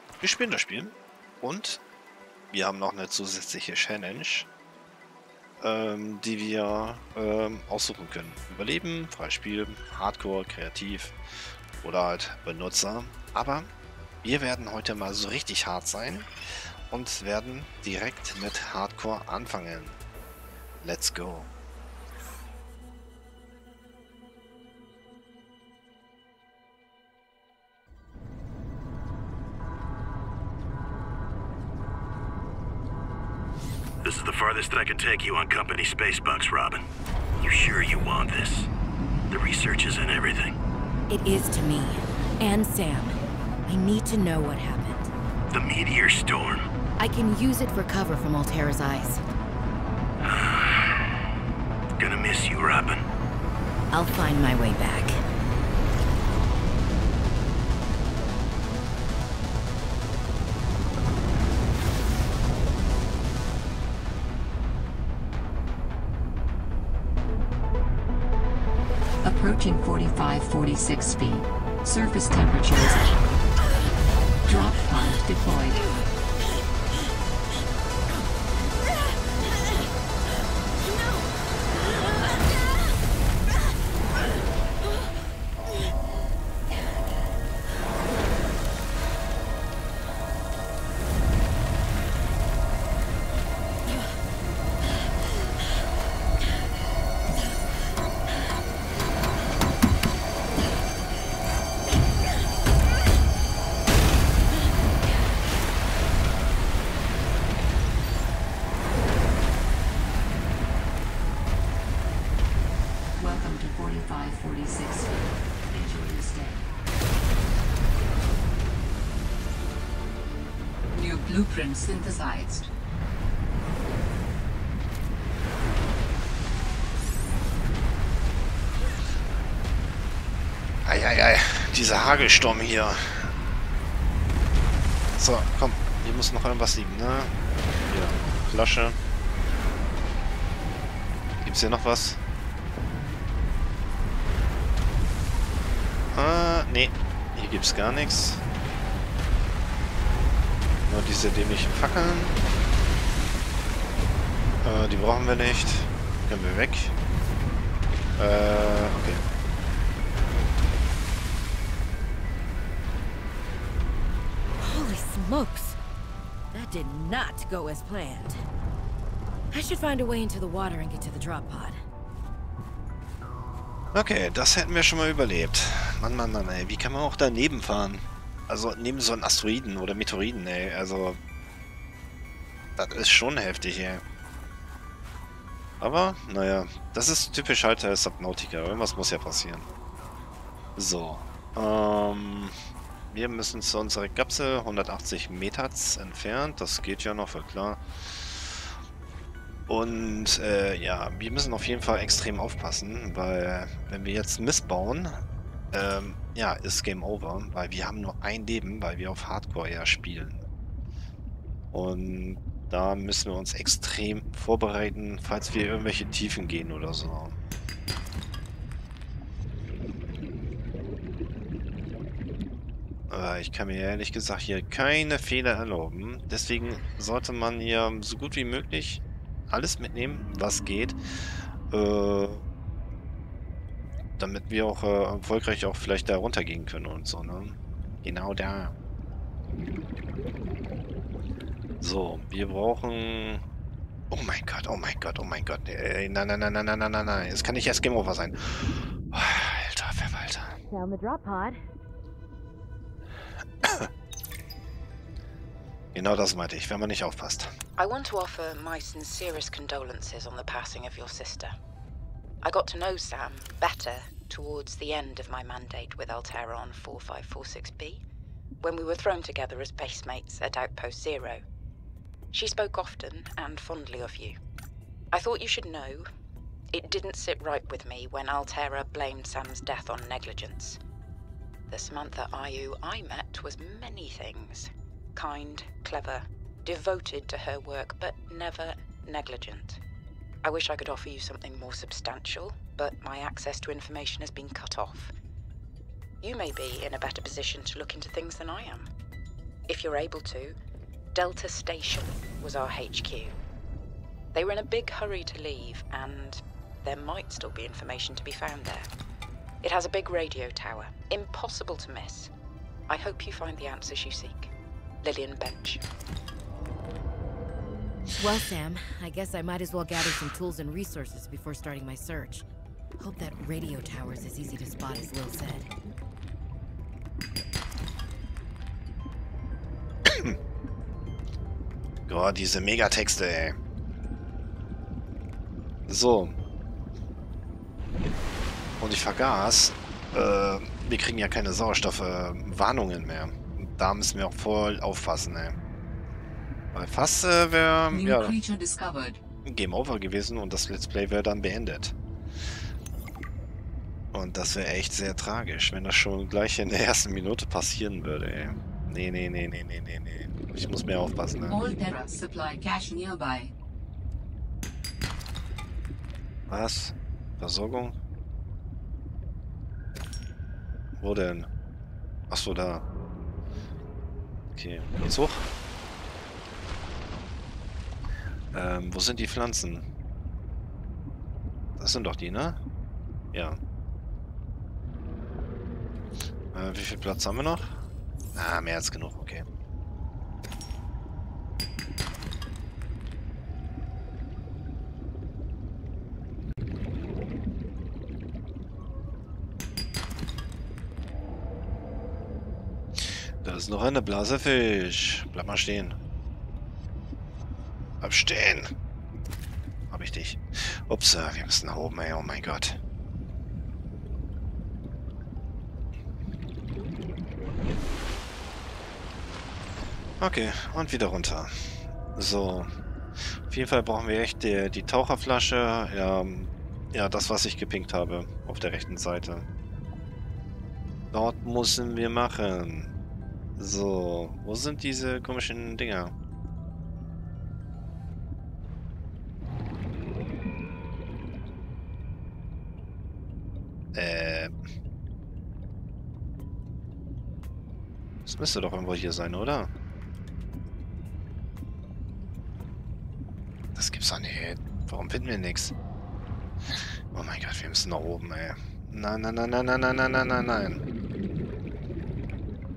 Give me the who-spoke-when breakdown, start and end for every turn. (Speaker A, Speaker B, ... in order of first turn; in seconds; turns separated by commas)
Speaker A: 0.2-1.8, Speaker A: 2.5-4.5, Speaker A: 5.6-13.7, Speaker A: 14.2-16.3, Speaker A: 16.9-20.0, Speaker A: 20.8-21.5, Speaker B: 34.0-36.9, Speaker B: 37.4-38.7, Speaker B: 39.3-40.6, Speaker C: 41.1-45.1, Speaker B: 45.5-46.7, Speaker C: 47.0-49.2, Speaker B: 50.2-51.1, Speaker B: 52.0-53.0, Speaker C: 53.9-55.2, Speaker D: 69.2-73.1, Speaker D: 74.5-75.9, Speaker D: 113.2-116.7, Speaker D: 120.9-122.7, Speaker A: 130.8-133.3, Speaker A: 135.2-137.3, Speaker A: 137.9-139.0, Speaker A: 141.4-142.2, Speaker A: 146.1-148.4, Speaker A: 150.9-152.4, Speaker A: 154.6-156.9, Speaker A: 158.2-159.2, Speaker C: 164.6-165.8, Speaker C: 166.5-168.4, Speaker C: 169.5-171.8, Speaker A: 173.9-181.2, Speaker A: 182.8-184.0, Speaker A: 185.8-189.7, Speaker A: 190.8-192.6, Speaker A: 193.1-198.7, Speaker A: 199.7-210.5, Speaker A: 211.7-217.3, Speaker A: 223.1-232.4, Speaker A: 234.2-238.7, Speaker A: 241.8-243.4, Speaker A: 244.1-250.6, Speaker C: 250.7-251.6, Speaker A: 253.6-253.9, Speaker A: 255.9-257.5, Speaker E: 257.8-261.6, Speaker E: 262.4-268.0, Speaker E: 268.6-271.4, Speaker E: 272.3-274.4, Speaker E: 275.1-276.1, Speaker E: 276.7-280.8, Speaker E: 281.7-289.8, Speaker E: 290.4-295.1, Speaker E: 296.2-298.9, Speaker E: 299.7-300.6, Speaker E: 301.1-303.4, Speaker E: 304.3-308.9, Speaker E: 309.6-312.3, Speaker E: 312.9-314.5, Speaker E: 315.0-315.8, Speaker C: 318.1-322.4, Speaker C: 323.0-325.7, Speaker A: 330.1-330.4, Speaker A: 332.1-333.6, Speaker A: 335.9-336.4, Speaker A: 338.8-345.6, Speaker A: 346.7-348.4, Speaker D: 347.9-349.2, Speaker A: 349.4-351.9, Speaker A: 354.1-361.6, Speaker D: 361.5-363.5, Speaker A: 366.5-368.0, Speaker A: 371.0-371.5, Speaker A: 372.3-372.9, Speaker A: 374.6-375.5, Speaker A: 378.5-379.9, Speaker A: 381.8-382.6, Speaker A: 383.3-383.6, Speaker A: 386.5-389.5, Speaker A: 403.0-406.0, Speaker A: 408.0-408.7, Speaker A: 409.9-412.8, Speaker A: 420.2-429.5, Speaker A: 431.1-432.9, Speaker A: 433.6-436.1, Speaker A: 443.9-444.5, Speaker A: 448.3-449.7, Speaker A: 453.8-455.7, Speaker A: 457.1-460.8